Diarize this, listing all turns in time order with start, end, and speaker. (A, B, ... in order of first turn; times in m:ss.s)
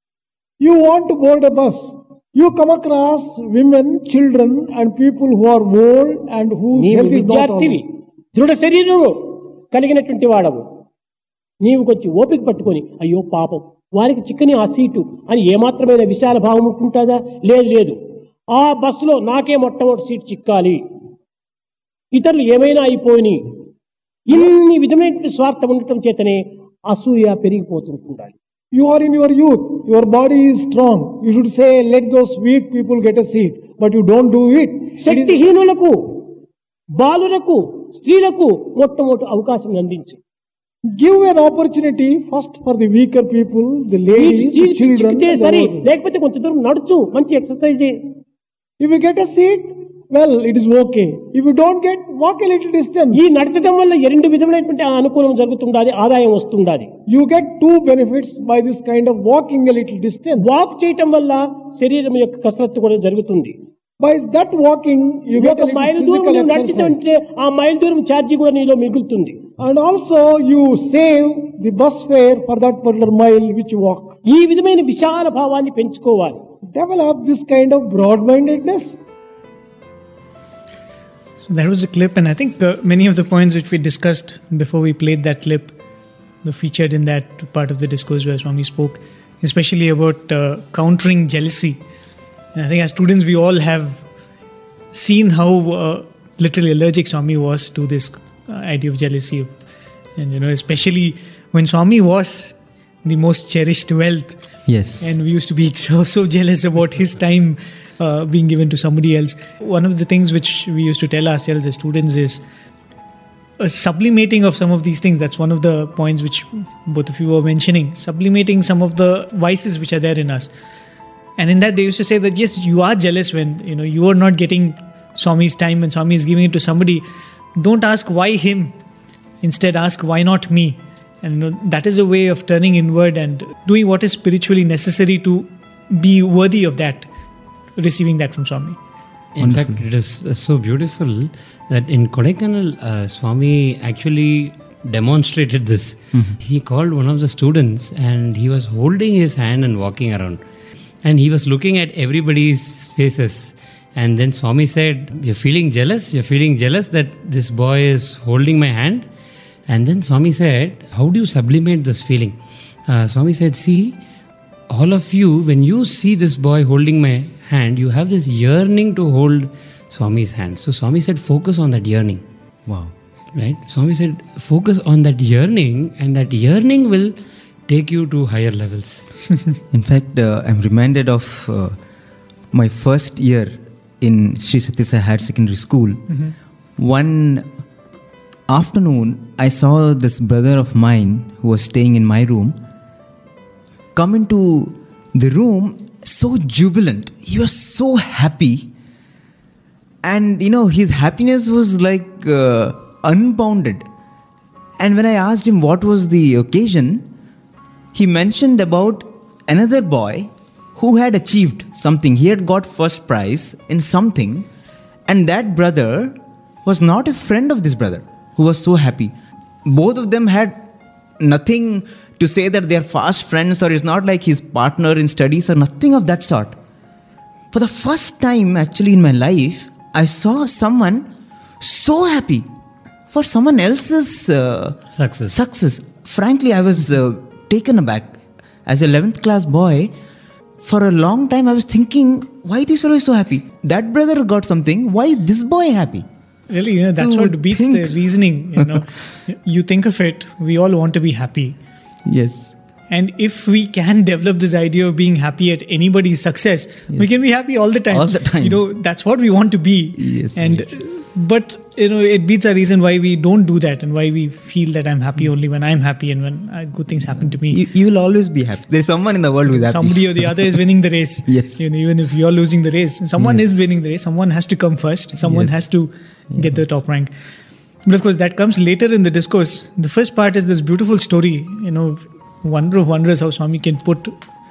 0:00.6-0:07.8 A
0:06.8-0:10.6 B
0:11.6-0:18.0 B
0:18.5-0:20.8 B
0:22.1-0:23.4 B
0:24.3-0:28.3 B
0:28.7-0:35.4 A
0:35.0-0:36.3 B
0:36.9-0:40.2 B
0:40.9-0:45.9 A
0:44.1-0:48.1 B
0:48.8-0:53.3 A
0:53.1-0:56.9 B
0:57.1-1:00.5 A
1:00.4-1:03.5 B
1:04.0-1:07.0 A
1:05.4-1:09.4 B
1:09.6-1:14.2 A
1:14.2-1:16.4 B
1:16.7-1:19.0 A
1:21.4-1:25.8 C
1:26.4-1:31.8 C
1:32.5-1:34.0 C
1:34.9-1:39.5 C
1:40.2-1:44.4 C
1:44.7-1:45.1 D
1:45.0-1:52.4 C
1:53.6-2:00.5 C
2:01.4-2:07.0 C
2:07.6-2:08.7 C
2:09.4-2:17.1 C
2:17.8-2:18.8 C
2:19.4-2:30.4 E
2:19.4-2:19.8 D
2:31.0-2:39.0 E
2:39.7-2:42.4 E
2:42.9-2:44.0 E
2:44.7-2:52.2 E
2:52.7-2:52.9 D
2:53.3-2:57.1 E
2:57.7-2:59.0 E
2:59.7-3:01.8 D
3:02.5-3:06.2 D
3:06.8-3:07.5 D
3:08.5-3:12.6 D
3:13.9-3:18.7 D
3:20.0-3:23.8 D
3:24.8-3:27.0 D
3:27.9-3:34.5 D
3:35.1-3:39.1 D
3:39.6-3:40.6 D
3:41.2-3:46.6 D
3:47.5-3:51.0 D
3:51.6-3:52.5 D
3:53.1-3:54.8 D
3:54.9-3:55.3 E
3:55.3-3:59.9 D
4:00.6-4:06.0 D
4:06.5-4:11.6 C
4:07.0-4:08.0 D
4:12.1-4:12.5 D
4:12.9-4:27.6 C
4:17.9-4:18.6 D
4:20.0-4:20.7 D
4:27.5-4:30.6 D
4:29.5-4:37.1 C
4:31.3-4:31.6 D
4:35.2-4:35.6 D
4:37.8-4:44.2 C